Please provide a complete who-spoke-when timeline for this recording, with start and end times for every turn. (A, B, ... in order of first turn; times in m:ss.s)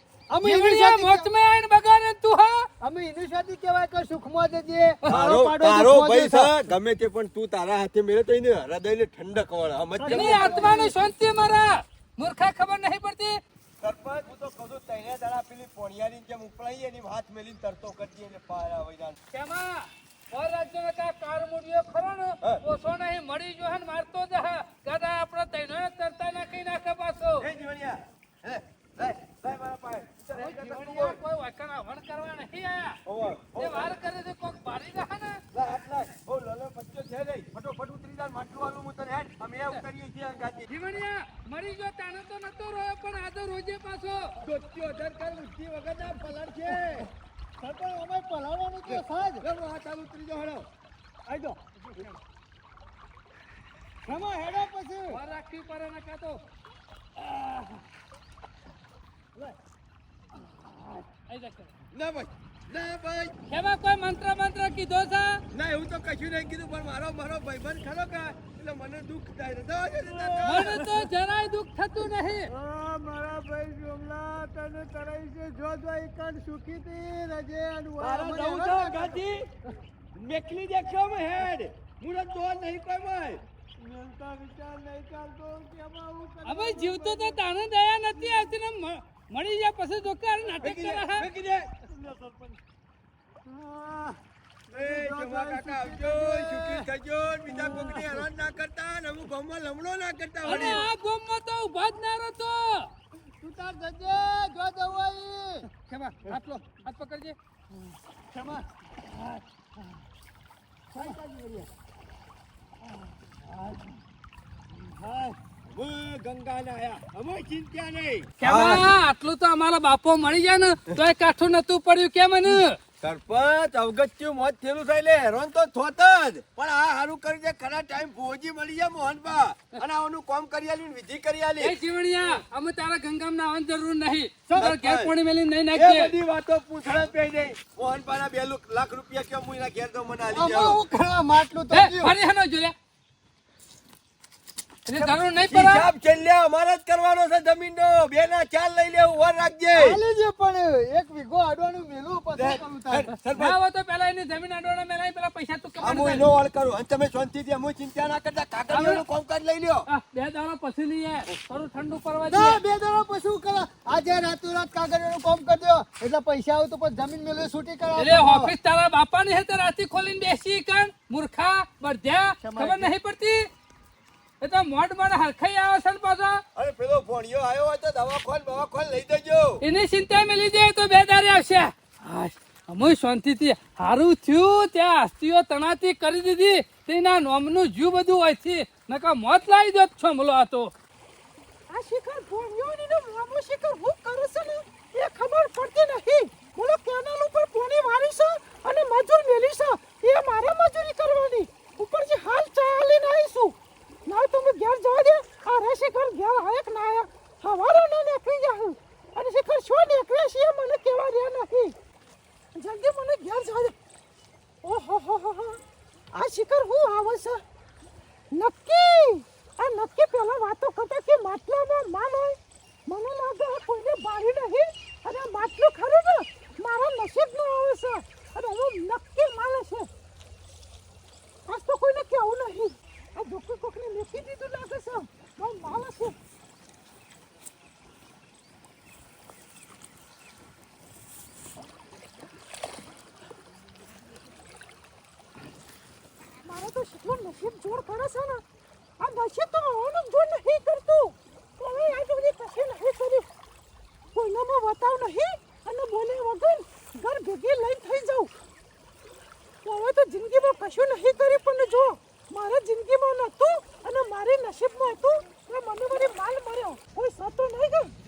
0:00.3-0:01.3 A
0:00.4-0:02.7 B
0:02.8-0:06.6 A
0:05.1-0:10.7 C
0:10.0-0:10.9 A
0:10.1-0:13.4 B
0:13.8-0:19.2 C
0:19.3-0:27.5 B
0:27.4-0:31.2 C
0:30.3-0:33.0 B
0:33.0-0:33.9 C
0:33.6-0:35.4 B
0:35.5-0:40.7 C
0:40.7-0:44.3 B
0:44.4-0:47.1 C
0:47.6-0:49.4 A
0:48.8-0:50.6 C
0:51.3-0:52.2 A
0:54.0-0:55.2 A
0:55.1-0:56.4 B
1:00.7-1:01.0 A
1:01.3-1:01.7 B
1:01.9-1:03.3 C
1:03.5-1:05.4 B
1:05.5-1:10.8 C
1:10.0-1:11.0 A
1:10.4-1:12.5 B
1:12.5-1:19.2 A
1:18.0-1:19.5 C
1:20.1-1:23.4 C
1:23.8-1:27.5 A
1:26.4-1:31.3 B
1:28.1-1:28.5 A
1:30.6-1:31.0 A
1:30.6-1:31.7 C
1:31.8-1:32.6 A
1:33.4-1:36.9 A
1:34.7-1:40.8 C
1:37.5-1:38.2 A
1:40.4-1:42.9 B
1:40.4-1:40.8 A
1:43.4-1:45.7 A
1:45.8-1:47.4 B
1:48.3-1:49.9 A
1:50.9-1:51.7 C
1:54.8-1:55.4 A
1:55.7-1:58.8 C
1:58.4-2:02.8 B
2:03.0-2:11.7 C
2:11.6-2:16.1 B
2:14.5-2:14.7 A
2:14.6-2:15.1 C
2:15.7-2:20.8 C
2:20.3-2:22.1 A
2:21.7-2:22.7 B
2:24.8-2:25.8 B
2:25.5-2:30.0 C
2:29.7-2:33.1 A
2:32.3-2:33.6 C
2:33.3-2:36.3 B
2:35.8-2:39.9 C
2:38.7-2:39.0 B
2:39.9-2:42.6 B
2:42.3-2:48.5 A
2:48.0-2:53.5 B
2:52.4-2:52.9 A
2:54.4-2:56.4 B
2:56.5-2:59.6 C
2:59.6-3:10.7 B
3:11.7-3:23.6 D
3:24.1-3:31.7 D
3:32.6-3:33.7 D
3:34.6-3:35.6 D
3:36.1-3:37.4 D
3:38.3-3:49.9 D
3:51.5-3:56.1 D
4:06.4-4:08.4 D
4:09.0-4:13.2 D
4:14.1-4:18.3 D
4:19.6-4:27.9 D